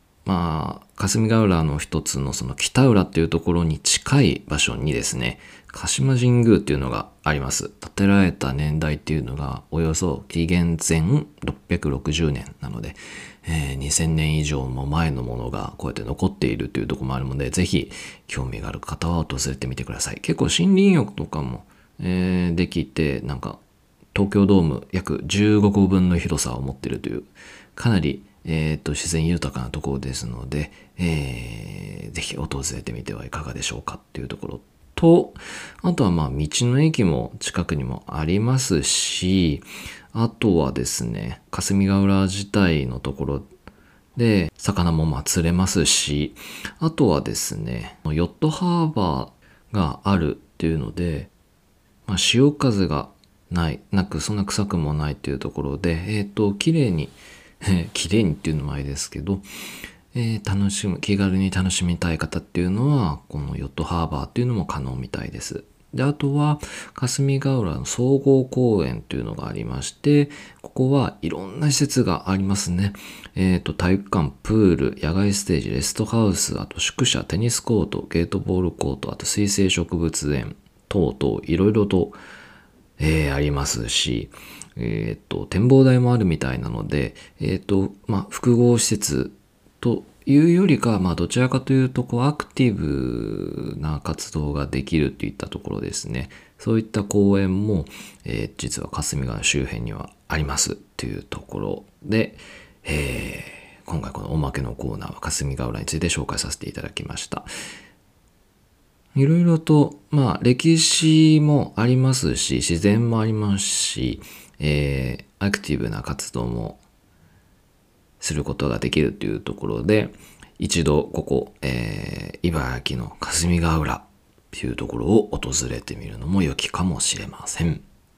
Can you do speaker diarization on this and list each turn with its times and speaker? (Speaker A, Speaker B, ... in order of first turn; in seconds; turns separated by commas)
Speaker A: 0.3-23.6, Speaker A: 24.1-43.5, Speaker A: 44.2-51.3, Speaker A: 52.1-59.5, Speaker A: 60.1-82.2, Speaker A: 83.0-107.5, Speaker A: 109.2-116.8, Speaker A: 118.2-127.8